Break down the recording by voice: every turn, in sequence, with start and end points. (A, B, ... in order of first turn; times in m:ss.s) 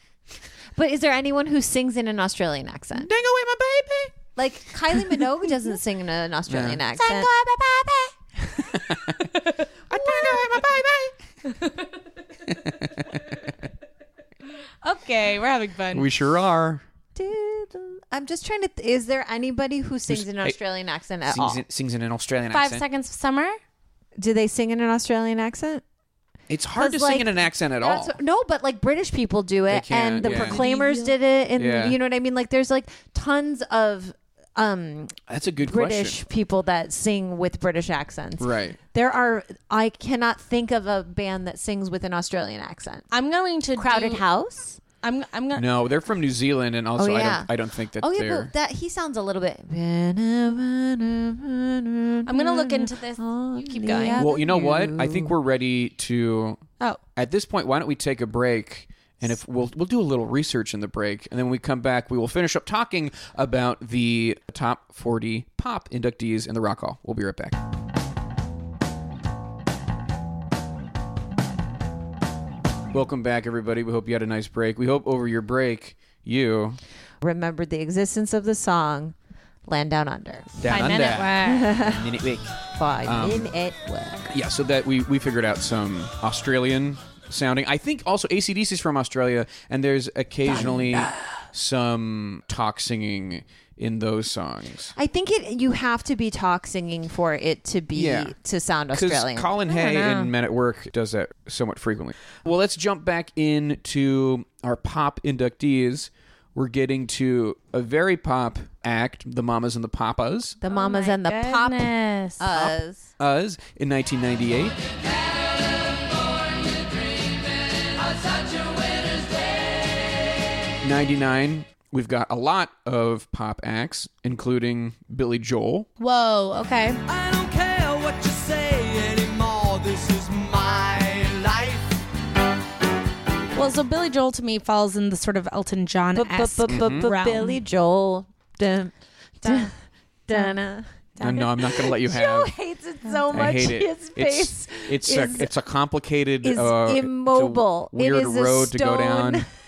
0:00.7-0:03.1 A
0:03.0-0:04.2 B
0:04.4-0:07.3 A
0:06.5-0:06.8 B
0:07.0-0:08.6 C
0:08.7-0:09.3 B
0:09.9-0:11.1 B
0:11.5-0:11.8 C
0:12.5-0:13.2 B
0:14.8-0:16.1 C
0:15.9-0:16.8 B
0:17.1-0:21.6 A
0:20.1-0:20.6 B
0:21.2-0:22.8 B
0:22.5-0:23.6 C
0:24.2-0:25.8 A
0:26.5-0:28.1 B
0:26.7-0:43.1 A
0:29.7-0:30.6 B
0:30.2-0:31.1 C
0:31.6-0:32.0 B
0:35.3-0:36.2 B
0:38.4-0:38.8 B
0:43.1-0:44.2 C
0:43.8-0:44.8 A
0:45.0-0:45.6 C
0:45.5-0:48.5 B
0:47.0-0:55.3 A
0:52.2-0:54.2 C
0:54.1-0:56.6 B
0:57.2-1:07.6 B
1:12.9-1:16.8 B
1:17.2-1:20.6 A
1:20.6-1:23.5 B
1:20.7-1:21.7 C
1:21.4-1:22.1 A
1:22.7-1:24.3 A
1:24.3-1:34.9 B
1:30.5-1:31.1 A
1:34.9-1:39.5 A
1:37.9-1:38.3 B
1:38.9-1:50.6 B
1:39.7-1:40.3 C
1:50.6-1:53.1 A
1:50.7-1:52.5 C
1:52.5-1:54.8 B
2:00.8-2:05.9 B
2:06.0-2:07.0 C
2:07.0-2:12.0 D
2:13.5-2:17.6 C
2:16.1-2:19.7 A
2:16.7-2:17.1 B
2:19.4-2:19.7 C
2:20.3-2:25.5 A
2:21.2-2:21.4 C
2:21.2-2:22.5 B
2:23.3-2:29.5 B
2:26.4-2:29.5 A